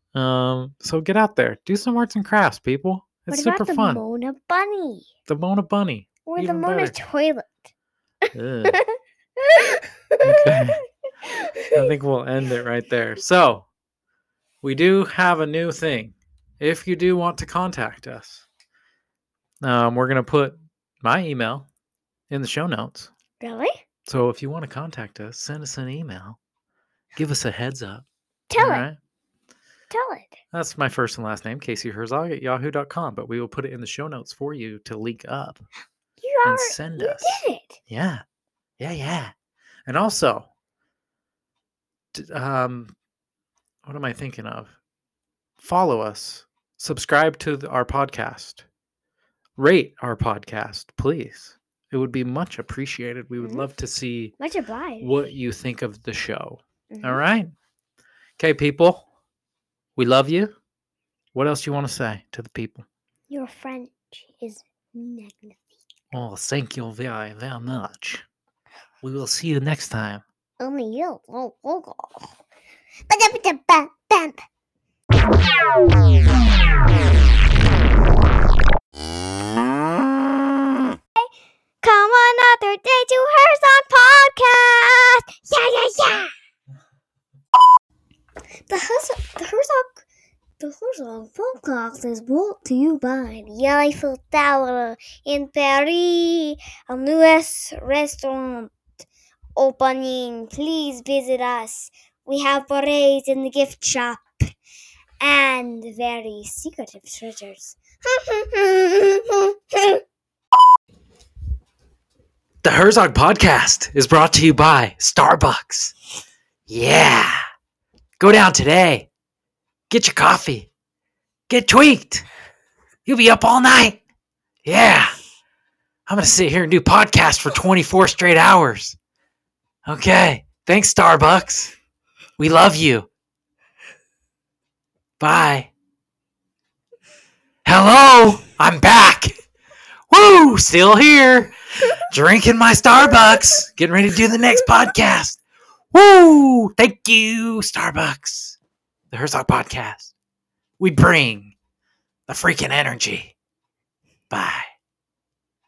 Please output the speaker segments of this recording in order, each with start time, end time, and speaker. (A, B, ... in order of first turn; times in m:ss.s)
0:00.1-0:04.0 A
0:03.3-0:05.1 B
0:05.3-0:07.0 A
0:06.2-0:07.7 B
0:08.2-0:10.6 B
0:08.3-0:08.8 A
0:10.2-0:10.8 A
0:11.2-0:11.9 B
0:11.7-0:13.7 A
0:14.6-0:18.4 A
0:19.6-0:21.7 A
0:22.3-0:23.1 A
0:23.4-0:23.8 B
0:24.1-0:26.4 A
0:27.2-0:28.1 A
0:28.5-0:28.9 B
0:28.6-0:29.0 A
0:29.9-0:30.4 B
0:30.5-0:35.6 A
0:36.2-0:37.8 B
0:36.4-0:38.2 A
0:38.8-0:39.3 A
0:39.9-0:40.5 A
0:42.1-0:42.9 A
0:43.8-0:44.8 A
0:45.6-0:48.6 A
0:49.6-0:54.4 A
0:53.4-0:53.7 B
0:54.4-0:55.2 B
0:55.0-0:57.5 A
0:56.9-0:57.2 B
0:58.4-0:59.1 A
1:00.0-1:00.5 A
1:01.3-1:02.9 A
1:03.3-1:05.7 B
1:06.1-1:08.2 A
1:09.0-1:10.2 A
1:10.6-1:12.4 B
1:13.1-1:14.4 B
1:21.8-1:26.3 B
1:28.7-1:30.0 B
1:30.6-1:39.0 B
1:39.6-1:44.5 B
1:45.2-1:50.0 B
1:52.6-1:56.0 A
1:56.7-1:57.4 A
1:58.2-1:59.1 A
1:59.9-2:00.7 A
2:01.5-2:02.3 A
2:03.1-2:04.0 A
2:04.6-2:05.2 A
2:06.1-2:09.0 A
2:09.8-2:11.8 A
2:12.4-2:13.1 A
2:15.2-2:15.7 A
2:17.6-2:19.3 A
2:20.1-2:28.6 A
2:29.1-2:30.1 A
2:30.8-2:31.6 A
2:32.3-2:33.3 A
2:34.3-2:34.7 A